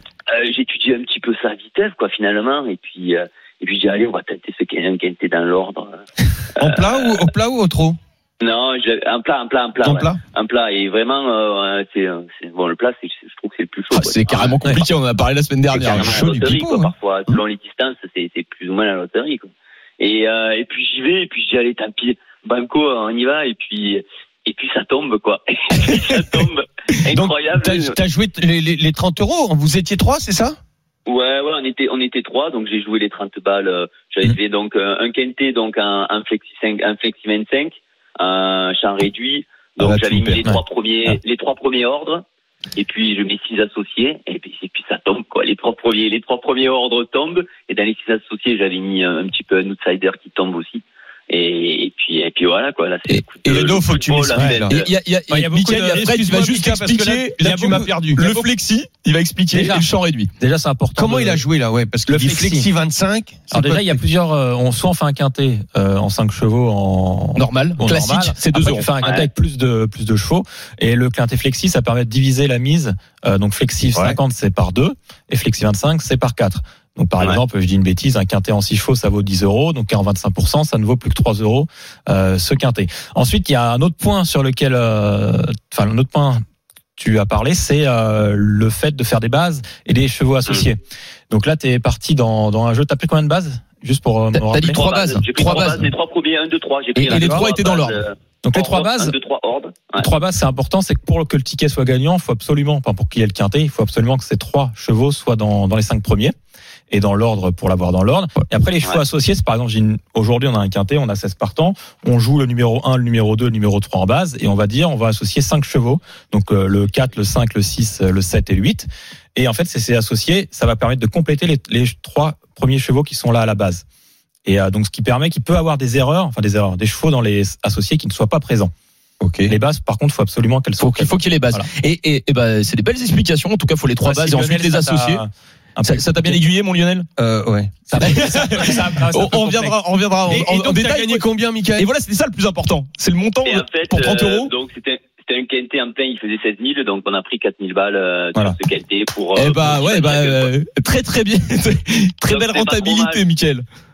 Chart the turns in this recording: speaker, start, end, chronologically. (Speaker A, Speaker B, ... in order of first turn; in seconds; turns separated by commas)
Speaker A: 0.3-6.0, Speaker A: 6.6-7.3, Speaker B: 6.6-8.0, Speaker A: 8.4-14.8, Speaker B: 9.8-10.2, Speaker C: 13.9-16.4, Speaker B: 15.7-17.4, Speaker A: 15.9-27.9, Speaker B: 27.1-30.6, Speaker A: 31.1-42.2, Speaker B: 39.8-40.5, Speaker A: 42.8-54.9, Speaker C: 53.1-60.3, Speaker B: 53.5-54.8, Speaker D: 55.3-56.3, Speaker B: 55.9-58.5, Speaker D: 59.5-59.9, Speaker D: 60.4-61.4, Speaker B: 61.0-64.0, Speaker D: 62.1-62.7, Speaker D: 63.5-86.4, Speaker C: 67.4-68.9, Speaker A: 69.0-69.3, Speaker D: 87.0-94.8, Speaker C: 94.3-95.9, Speaker A: 94.7-100.1, Speaker C: 97.0-98.0, Speaker D: 97.1-97.5, Speaker D: 98.4-99.2, Speaker D: 100.0-106.3, Speaker D: 106.9-123.8, Speaker D: 124.5-128.7, Speaker B: 129.2-129.6, Speaker D: 129.5-131.7, Speaker C: 130.8-135.2, Speaker D: 134.1-136.4, Speaker C: 135.8-137.1, Speaker B: 137.2-137.8, Speaker D: 137.9-139.8, Speaker C: 138.0-144.5, Speaker B: 140.3-141.9, Speaker A: 143.4-150.5, Speaker C: 149.3-153.6, Speaker A: 152.3-153.2